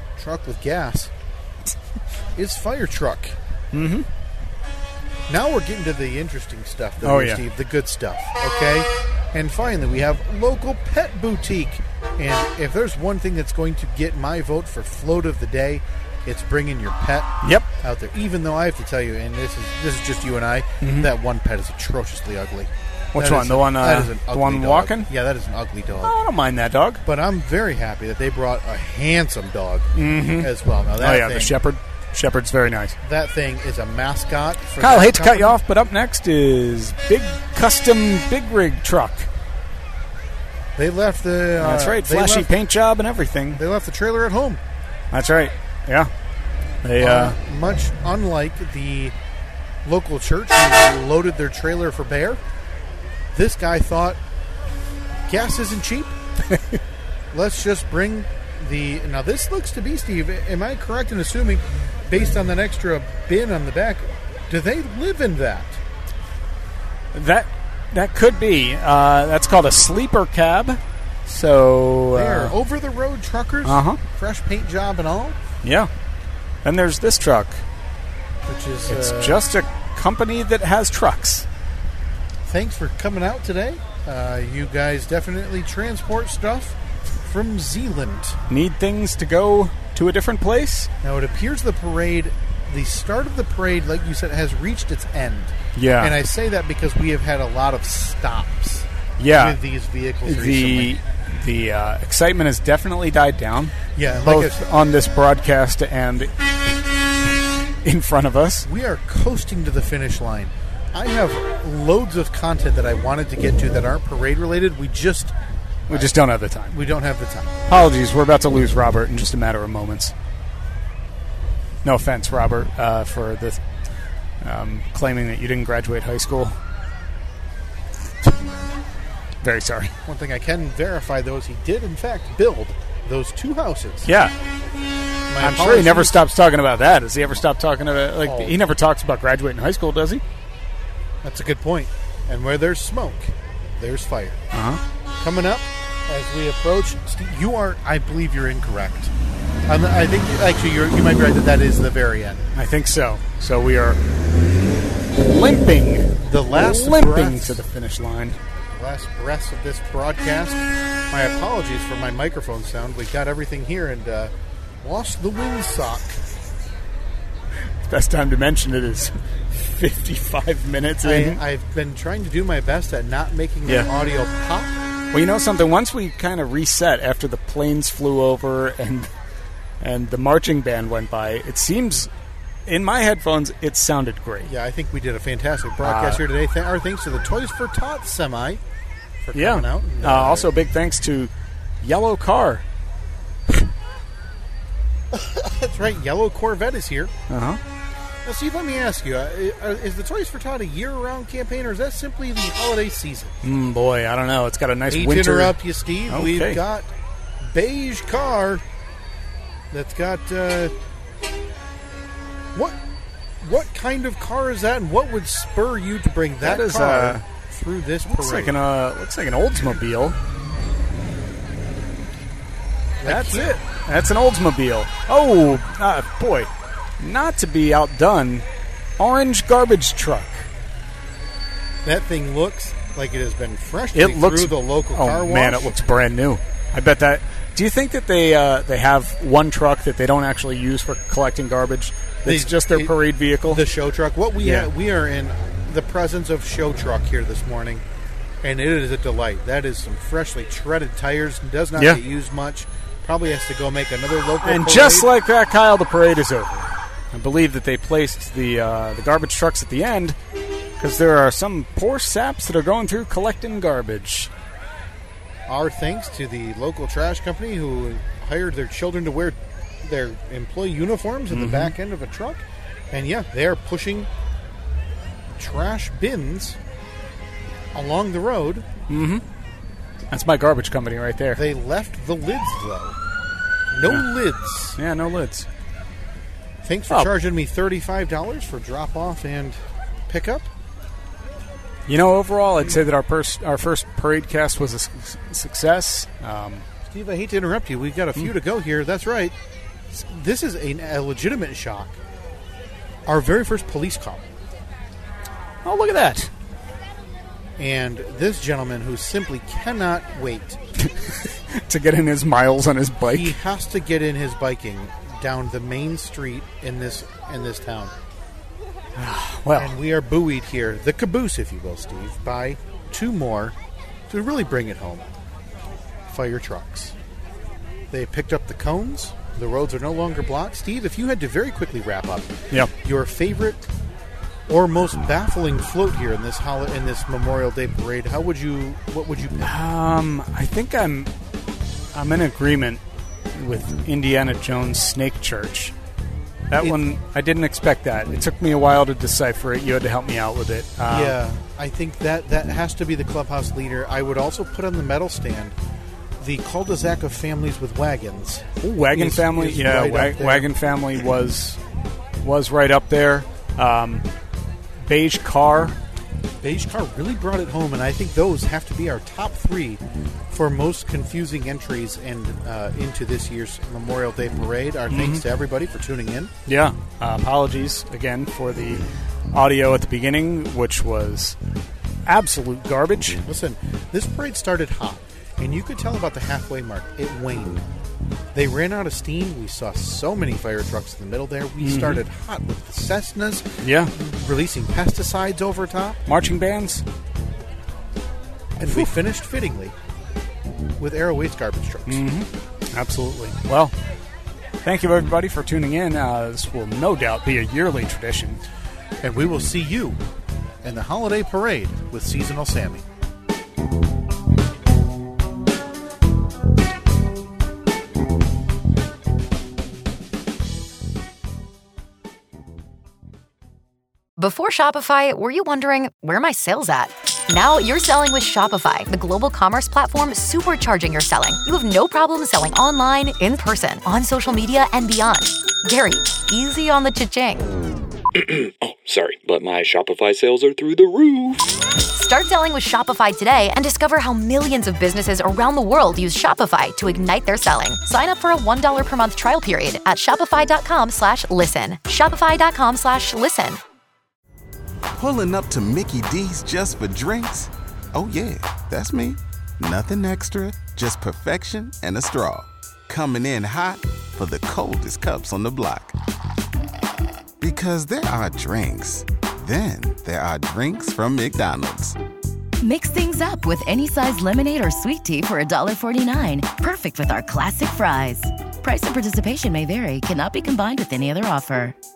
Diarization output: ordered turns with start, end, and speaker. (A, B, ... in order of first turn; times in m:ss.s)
0:00.2-0:01.1 A
0:02.4-0:03.4 A
0:03.7-0:04.1 B
0:05.3-0:26.1 A
0:07.0-0:07.4 B
0:17.4-0:17.7 B
0:20.8-0:21.1 B
0:23.1-0:25.1 B
0:26.0-0:27.0 B
0:27.0-0:31.6 A
0:30.0-0:33.0 B
0:33.0-0:35.6 A
0:34.8-0:39.3 B
0:40.8-0:42.5 A
0:41.6-0:43.6 B
0:43.5-0:44.6 A
0:45.1-0:46.1 B
0:46.8-0:47.4 B
0:47.0-0:49.2 A
0:49.8-0:52.4 A
0:53.3-0:54.2 A
0:55.3-0:56.2 A
0:56.5-0:56.8 B
0:57.3-1:05.8 A
1:07.1-1:12.6 B
1:12.1-1:15.4 A
1:13.6-1:14.0 B
1:15.6-1:15.9 B
1:16.6-1:17.6 B
1:18.5-1:19.5 A
1:18.8-1:21.5 B
1:22.4-1:28.4 A
1:28.5-1:30.9 B
1:31.0-1:41.0 A
1:35.8-1:36.2 B
1:39.2-1:39.6 B
1:40.2-1:46.4 B
1:44.0-1:44.6 A
1:47.8-1:48.7 B
1:48.6-1:55.4 A
1:55.9-1:56.8 B
1:55.9-1:56.2 A
1:56.7-1:57.6 A
1:57.7-2:00.1 B
2:01.8-2:03.6 B
2:04.4-2:06.6 B
2:09.4-2:09.9 B
2:10.1-2:14.1 A
2:14.0-2:14.3 B
2:15.3-2:16.2 A
2:15.4-2:20.2 B
2:18.2-2:18.6 A
2:21.2-2:24.4 A
2:24.5-2:24.8 B
2:25.2-2:29.1 A
2:29.7-2:32.5 A
2:32.5-2:34.0 B
2:35.2-2:38.4 B
2:36.3-2:37.6 A
2:38.7-2:46.2 A
2:47.8-2:51.4 B
2:51.0-2:54.7 A
2:55.1-2:59.1 B
2:59.8-3:02.1 B
3:02.7-3:04.5 B
3:04.4-3:08.6 A
3:05.8-3:06.2 B
3:09.2-3:10.5 A
3:09.4-3:12.6 B
3:15.1-3:17.1 A
3:17.3-3:17.6 B
3:18.2-3:23.4 A
3:23.4-3:25.6 B
3:24.9-3:26.9 A
3:26.1-3:26.6 B
3:27.4-3:28.6 A
3:29.7-3:30.7 A
3:32.5-3:32.8 A
3:33.4-3:38.6 A
3:36.4-3:37.2 B
3:38.1-3:40.2 B
3:43.0-3:43.6 A
3:43.0-3:48.5 B
3:49.0-3:50.5 B
3:51.8-3:55.8 A
3:53.9-4:03.6 B
4:02.2-4:07.8 A
4:04.4-4:04.7 B
4:08.4-4:15.1 A
4:11.8-4:12.0 B
4:14.4-4:20.2 B
4:20.8-4:24.3 B
4:25.5-4:34.1 A
4:31.3-4:31.7 B
4:35.3-4:36.6 A
4:37.7-4:38.7 A
4:38.9-4:39.2 B
4:40.1-4:41.4 B
4:41.3-4:43.0 A
4:43.7-4:44.8 A
4:44.8-4:45.5 B
4:46.6-4:50.5 A
4:51.9-4:56.6 B
4:56.9-4:59.4 A
4:59.9-5:02.0 A
5:03.1-5:04.3 A
5:05.6-5:06.3 B
5:07.6-5:10.6 A
5:10.8-5:13.4 B
5:13.0-5:17.9 A
5:19.0-5:19.8 B
5:19.6-5:23.6 A
5:24.1-5:25.1 A
5:26.1-5:27.0 A
5:27.9-5:33.6 A
5:34.5-5:39.5 A
5:39.4-5:41.1 B
5:41.9-5:42.8 B
5:43.4-5:45.8 B
5:46.5-5:51.2 B
5:50.9-5:55.6 A
5:56.2-6:00.5 A
5:58.6-6:01.6 B
6:02.2-6:04.1 B
6:04.8-6:05.8 B
6:06.4-6:16.3 A
6:14.9-6:15.2 B
6:16.5-6:21.4 B
6:22.1-6:23.2 B
6:23.2-6:27.6 A
6:28.3-6:36.0 A
6:31.6-6:32.0 B
6:33.6-6:33.9 B
6:36.1-6:36.8 B
6:38.6-6:39.8 A
6:38.6-6:38.9 B
6:40.8-6:42.0 A
6:41.9-6:43.8 B
6:44.6-6:48.4 B
6:49.0-6:50.0 A
6:50.6-6:52.8 A
7:04.2-7:17.5 C
7:18.2-7:21.5 D
7:21.9-7:33.6 C
7:34.9-7:46.0 E
7:47.4-7:52.0 E
7:52.6-8:01.8 F